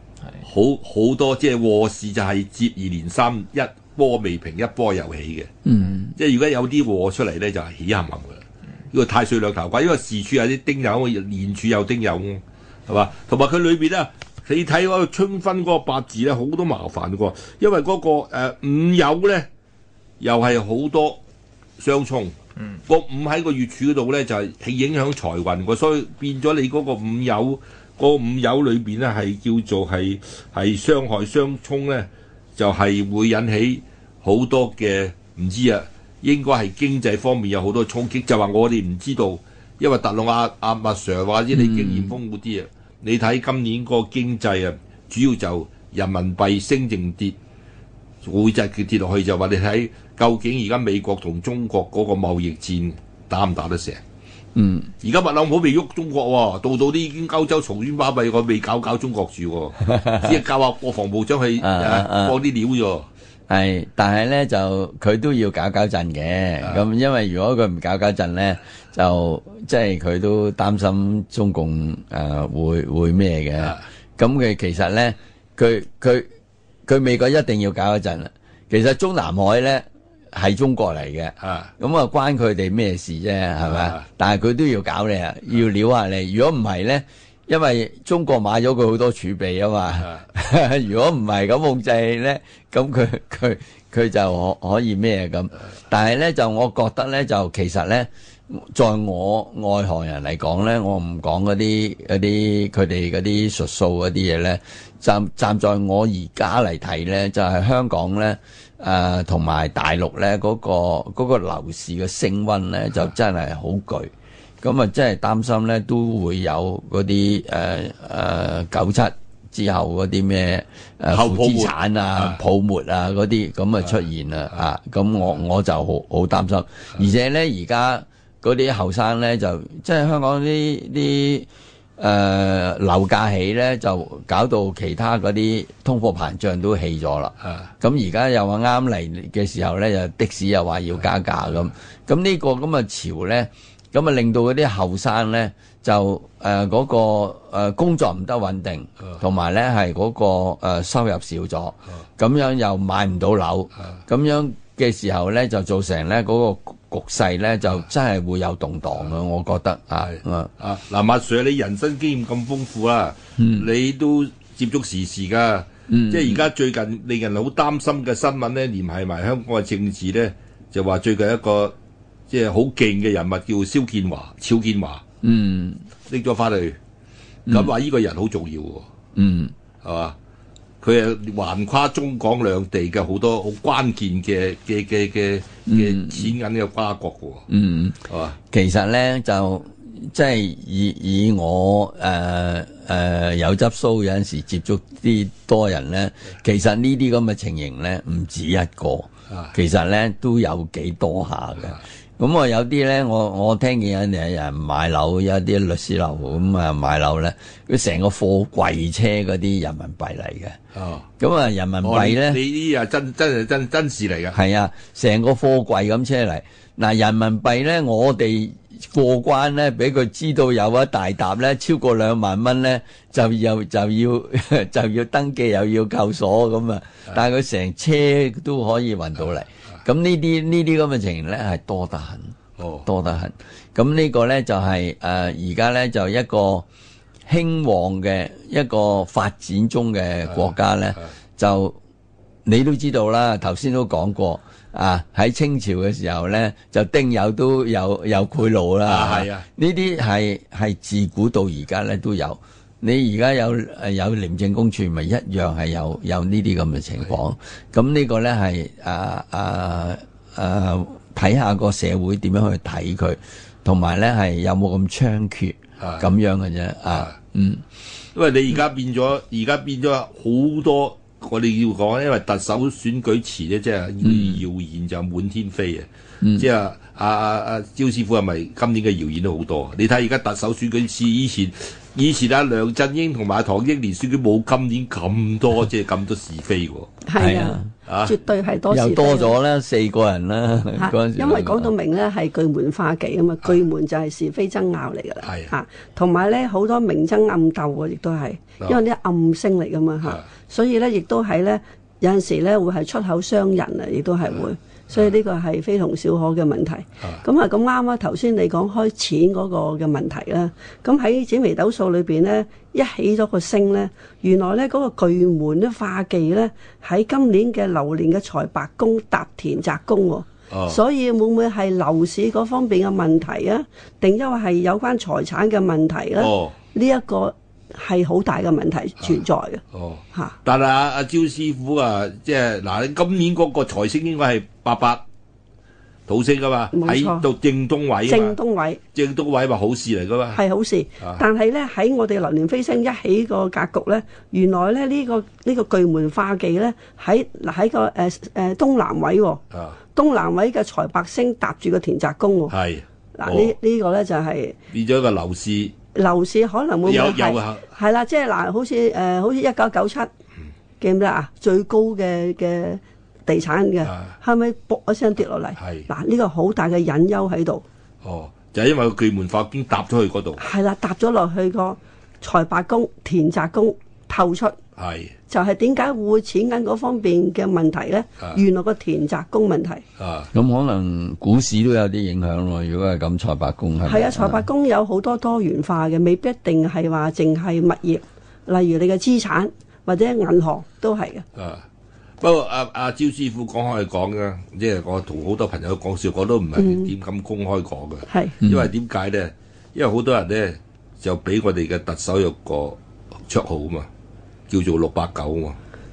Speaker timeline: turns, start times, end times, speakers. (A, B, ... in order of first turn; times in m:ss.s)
0:00.4-0:05.5 A
0:05.6-0:06.1 B
0:06.2-0:19.5 A
0:20.2-0:21.2 A
0:21.8-0:22.4 A
0:22.9-0:47.4 A
0:41.5-0:42.1 B
0:48.2-0:54.0 A
0:54.6-0:54.9 B
0:55.0-1:03.1 A
0:59.8-1:00.4 B
1:01.6-1:02.4 B
1:03.5-1:16.3 B
1:16.9-2:40.5 B
1:21.4-1:21.7 A
1:23.6-1:24.0 A
2:01.1-2:02.4 A
2:40.0-2:51.8 A
2:43.4-2:43.7 B
2:45.9-2:46.4 B
2:52.3-2:55.0 A
2:55.2-2:55.8 B
2:56.1-2:56.8 A
2:57.5-2:58.9 A
2:59.2-2:59.5 B
2:59.8-3:00.2 A
3:00.8-3:07.5 A
3:05.7-3:06.3 B
3:07.5-3:30.6 B
3:08.1-3:08.4 A
3:30.8-3:31.1 A
3:31.2-3:32.4 B
3:31.8-3:34.4 A
3:34.3-3:56.7 B
3:52.6-3:52.9 A
3:57.3-4:01.8 B
4:00.3-4:01.1 A
4:02.4-4:27.6 B
4:08.8-4:09.4 A
4:25.8-4:26.1 A
4:28.2-4:46.9 A
4:34.0-4:34.4 B
4:36.2-4:36.5 B
4:47.1-4:49.4 C
4:47.2-4:47.7 B
4:47.9-4:48.2 A
4:48.7-4:51.7 B
4:50.8-5:29.6 C
4:55.2-4:55.5 A
5:20.5-5:20.8 A
5:26.2-5:26.6 A
5:29.7-5:35.0 A
5:36.1-5:38.4 A
5:36.7-5:37.2 C
5:38.1-5:38.8 C
5:38.9-5:40.4 A
5:40.4-5:49.4 C
5:49.5-5:49.8 A
5:49.9-5:52.5 C
5:52.5-5:53.6 A
5:53.2-5:54.6 C
5:54.7-5:55.7 A
5:55.9-6:00.1 C
5:56.8-5:57.7 A
6:00.8-6:07.6 C
6:03.8-6:04.1 A
6:05.6-6:05.9 A
6:08.0-6:10.4 A
6:10.4-6:14.6 C
6:14.8-6:15.1 A
6:15.3-6:19.8 C
6:20.0-6:20.3 A
6:20.3-6:24.5 B
6:23.8-6:31.2 C
6:31.4-6:31.6 A
6:32.2-6:43.9 A
6:36.6-6:36.9 C
6:38.1-6:38.4 C
6:38.4-6:38.7 B
6:44.5-6:45.6 A